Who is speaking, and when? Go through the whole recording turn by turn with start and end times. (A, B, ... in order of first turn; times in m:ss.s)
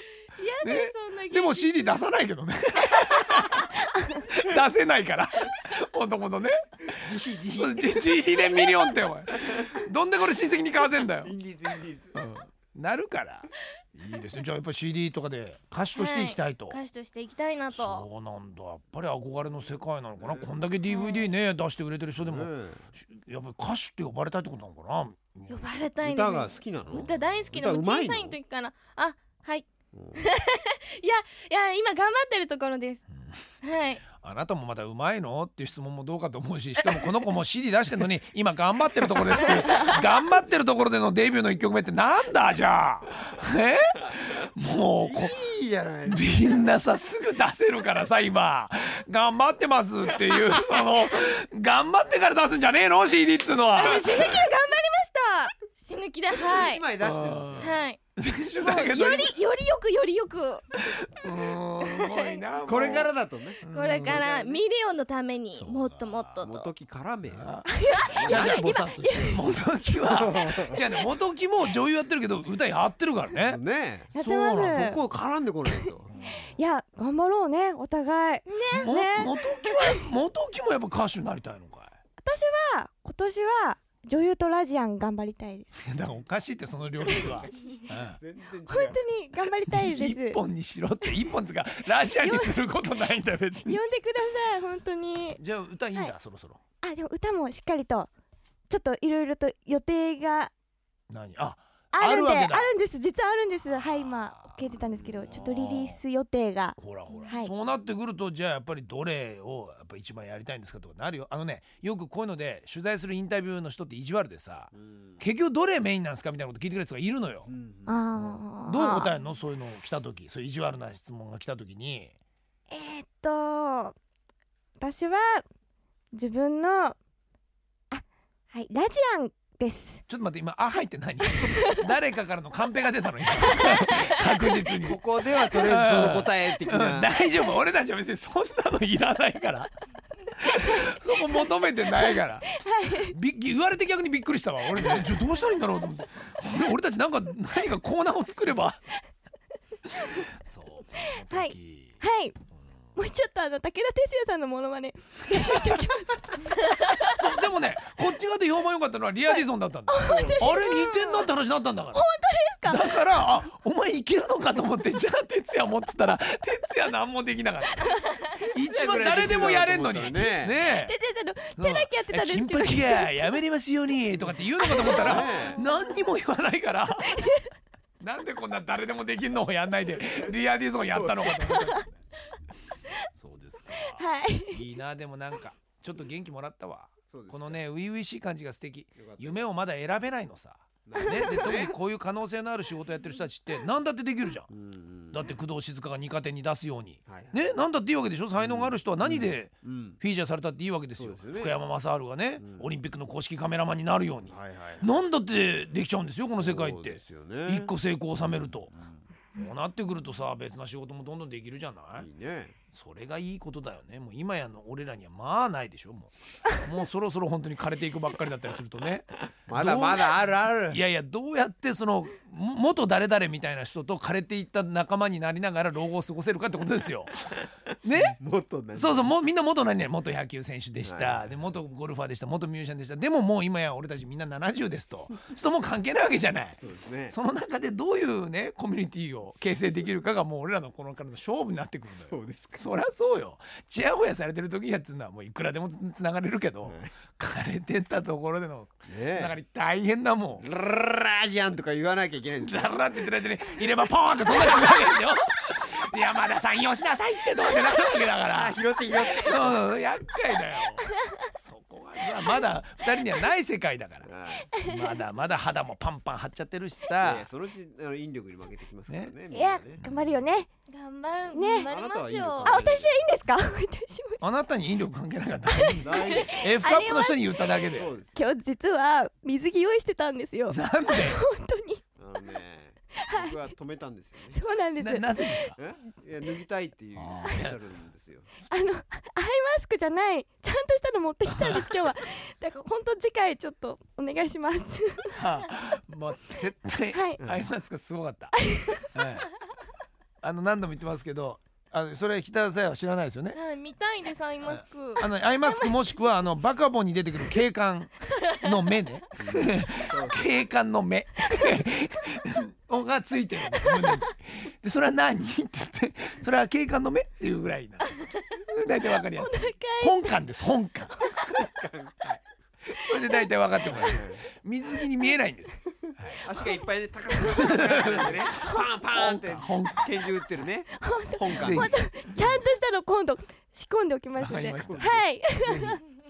0:00.3-0:02.0 A
0:00.6-0:11.3 B
0:02.9-0:03.4 A
0:03.9-0:04.2 C
0:06.9-0:08.2 D
0:09.3-0:09.8 D
0:11.2-0:12.2 D
0:12.1-0:16.8 B
0:15.9-0:18.0 A
0:17.7-0:25.7 B
0:20.2-0:20.5 D
0:20.9-0:21.3 A
0:22.2-0:22.9 D
0:25.5-0:33.0 A
0:26.0-0:28.4 D
0:29.9-0:30.2 D
0:33.6-0:34.0 A
0:34.1-0:45.3 B
0:36.8-0:37.1 A
0:45.0-0:46.7 D
0:46.0-0:54.1 B
0:53.7-0:56.8 A
0:56.3-0:57.8 D
0:57.0-0:59.3 B
0:57.6-0:58.0 A
0:58.6-1:00.7 A
1:00.8-1:04.2 B
1:01.8-1:02.4 A
1:02.6-1:04.6 D
1:03.7-1:06.7 A
1:05.5-1:06.4 B
1:06.4-1:07.5 D
1:07.3-1:13.6 B
1:07.8-1:08.5 C
1:08.0-1:09.4 D
1:08.3-1:09.4 A
1:10.1-1:10.8 D
1:13.4-1:16.1 D
1:14.1-1:15.0 C
1:14.1-1:15.0 B
1:16.1-1:16.5 B
1:16.6-1:20.0 C
1:18.5-1:18.9 A
1:18.7-1:21.9 B
1:22.2-1:25.8 C
1:25.8-1:28.2 B
1:27.1-1:29.0 D
1:28.7-1:30.4 C
1:29.7-1:33.8 B
1:32.2-1:32.6 C
1:33.6-1:35.4 C
1:35.4-1:36.6 B
1:36.8-1:38.1 C
1:38.7-1:40.5 C
1:41.1-1:42.8 B
1:41.9-1:47.5 C
1:43.6-1:46.0 B
1:44.9-1:45.4 D
1:46.8-1:57.5 B
1:54.7-1:55.2 D
1:57.5-1:58.0 D
1:57.9-1:59.1 C
1:58.1-2:02.1 B
2:02.7-2:04.0 C
2:04.8-2:05.4 C
2:06.1-2:07.0 C
2:07.9-2:10.0 C
2:10.1-2:15.0 B
2:11.4-2:11.8 C
2:13.5-2:14.2 C
2:14.8-2:17.1 D
2:15.5-2:19.7 B
2:20.3-2:22.5 B
2:22.0-2:23.1 C
2:23.1-2:28.8 B
2:30.0-2:32.0 B
2:31.0-2:32.3 C
2:33.0-2:37.1 C
2:35.4-2:35.7 B
2:37.0-2:42.0 B
2:39.9-2:41.3 C
2:40.0-2:40.7 D
2:41.9-2:43.1 C
2:42.6-2:48.0 B
2:48.4-2:50.6 D
2:48.5-2:51.0 B
2:50.7-2:53.4 C
2:51.6-2:57.2 B
2:54.2-2:55.6 D
2:54.6-2:56.0 C
2:57.1-2:57.5 C
2:58.0-3:02.0 B
3:00.2-3:01.7 D
3:03.1-3:14.5 B
3:03.7-3:04.6 C
3:07.1-3:07.6 D
3:08.9-3:09.5 D
3:10.8-3:11.7 D
3:11.0-3:11.6 C
3:14.5-3:15.3 D
3:15.1-3:28.7 B
3:17.0-3:17.5 D
3:18.4-3:20.0 D
3:21.0-3:21.6 D
3:22.4-3:22.7 D
3:24.3-3:24.9 D
3:26.4-3:27.7 D
3:28.7-3:29.0 D
3:29.3-3:32.1 B
3:32.0-3:32.5 D
3:32.7-3:48.2 B
3:39.4-3:40.8 D
3:48.1-3:49.1 D
3:48.7-3:56.6 B
3:50.8-3:51.6 D
3:56.6-3:57.2 D
3:57.1-4:10.4 B
4:02.1-4:02.7 D
4:06.6-4:06.9 D
4:08.8-4:09.4 D
4:10.4-4:12.8 D
4:12.4-4:27.3 B
4:18.3-4:19.6 D
4:24.0-4:24.5 D
4:27.0-4:29.8 D
4:28.9-4:29.1 B
4:29.3-4:30.5 C
4:29.8-4:30.1 B
4:30.7-4:32.7 A
4:31.3-4:31.7 C
4:31.5-4:33.1 D
4:32.4-4:34.2 C
4:34.2-4:37.9 B
4:35.5-4:37.2 C
4:35.8-4:36.3 D
4:37.7-4:38.2 D
4:38.2-4:41.8 C
4:40.5-4:41.2 B
4:42.0-4:44.4 D
4:43.0-4:43.3 C
4:44.3-4:45.4 C
4:44.8-4:45.6 B
4:45.6-4:48.3 D
4:47.0-4:47.6 B
4:48.5-4:55.2 C
4:51.4-4:51.6 B
4:55.1-4:58.4 B
4:56.9-4:57.2 C
4:58.3-4:58.9 C
4:58.9-4:59.3 B
5:00.2-5:03.4 B
5:03.3-5:05.1 A
5:04.4-5:21.0 B
5:05.4-5:06.0 C
5:09.2-5:10.3 D
5:19.1-5:20.1 C
5:20.9-5:21.2 C
5:21.4-5:22.2 D
5:22.6-5:26.2 B
5:23.6-5:24.2 D
5:26.2-5:32.4 D
5:27.2-5:28.2 B
5:28.3-5:28.6 C
5:28.9-5:29.9 B
5:30.7-5:35.8 C
5:31.3-5:31.8 B
5:34.2-5:35.8 B
5:34.5-5:35.1 D